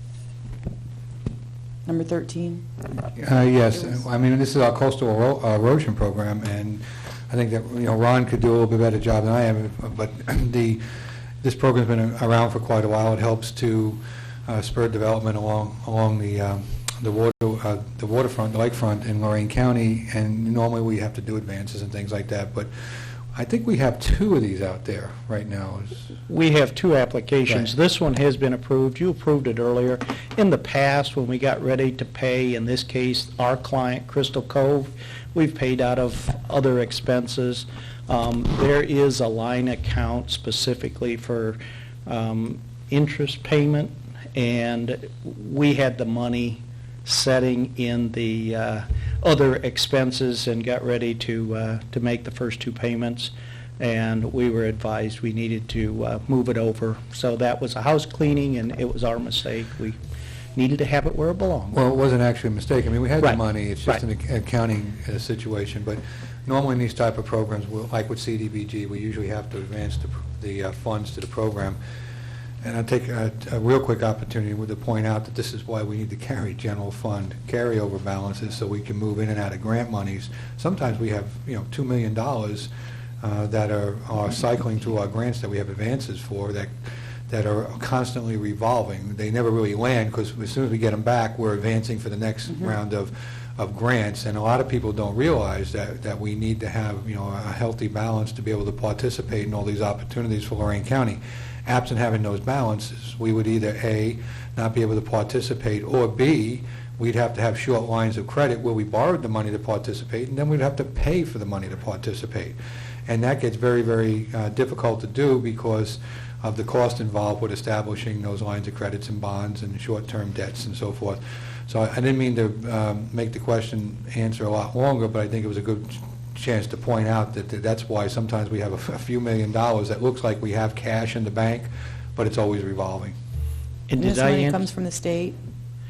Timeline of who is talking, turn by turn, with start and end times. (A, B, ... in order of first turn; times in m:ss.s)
0:01.9-0:02.6 A
0:03.1-0:10.8 B
0:11.4-0:22.7 B
0:23.3-0:26.1 B
0:26.3-1:00.0 C
0:27.5-0:27.7 B
1:00.6-1:01.8 C
1:01.7-1:11.8 B
1:03.2-1:04.0 C
1:12.6-1:22.7 B
1:23.2-1:26.8 B
1:27.3-1:52.6 B
1:53.1-2:13.2 B
2:13.9-2:14.7 C
2:14.0-2:15.4 A